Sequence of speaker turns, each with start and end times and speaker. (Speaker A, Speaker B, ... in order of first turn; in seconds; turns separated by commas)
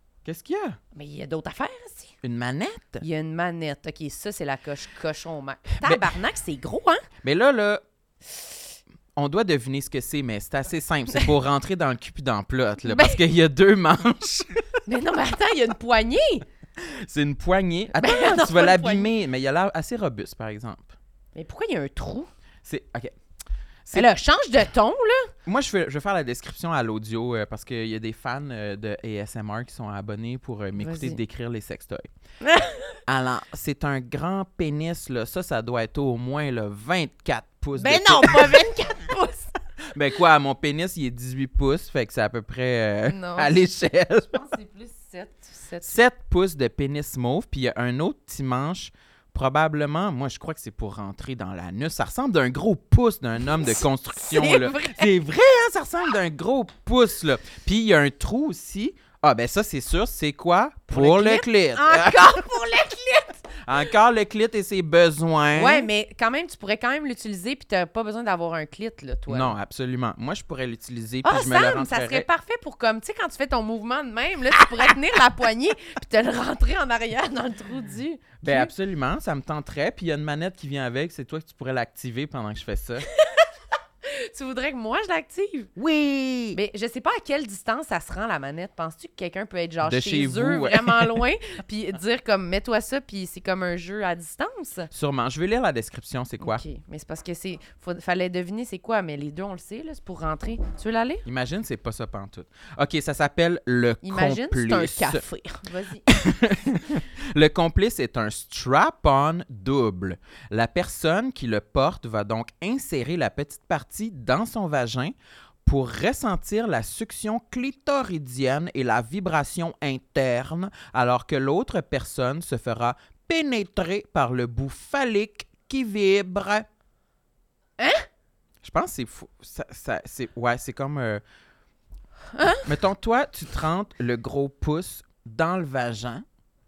Speaker A: 0.2-0.8, Speaker B: 0.9-2.1, Speaker A: 2.2-3.0, Speaker B: 3.0-7.0, Speaker A: 5.8-6.1, Speaker A: 7.2-7.8, Speaker A: 9.2-14.8, Speaker B: 12.8-13.2, Speaker B: 14.9-16.5, Speaker A: 16.8-20.9, Speaker B: 17.9-19.1, Speaker B: 21.4-22.3, Speaker A: 22.6-23.1, Speaker B: 23.9-25.3, Speaker A: 25.4-32.1, Speaker B: 30.8-31.2, Speaker B: 32.4-33.0, Speaker A: 33.1-38.6, Speaker B: 37.8-39.5, Speaker A: 39.9-44.3, Speaker B: 43.1-43.7, Speaker B: 44.3-46.0, Speaker A: 45.8-62.4, Speaker B: 53.5-55.1, Speaker B: 60.9-63.9, Speaker A: 63.6-65.9, Speaker B: 65.5-69.6, Speaker A: 69.3-72.3, Speaker B: 71.2-78.7, Speaker A: 78.4-83.1, Speaker B: 83.1-83.5, Speaker B: 84.0-85.7, Speaker A: 85.8-86.6, Speaker B: 86.5-94.9, Speaker A: 89.8-91.2, Speaker A: 94.9-96.6, Speaker B: 96.4-101.3, Speaker A: 101.3-105.2, Speaker B: 104.0-106.1, Speaker A: 106.1-115.1, Speaker A: 115.7-126.7, Speaker B: 127.8-128.1, Speaker A: 128.6-131.2, Speaker B: 132.3-132.7, Speaker A: 132.7-136.2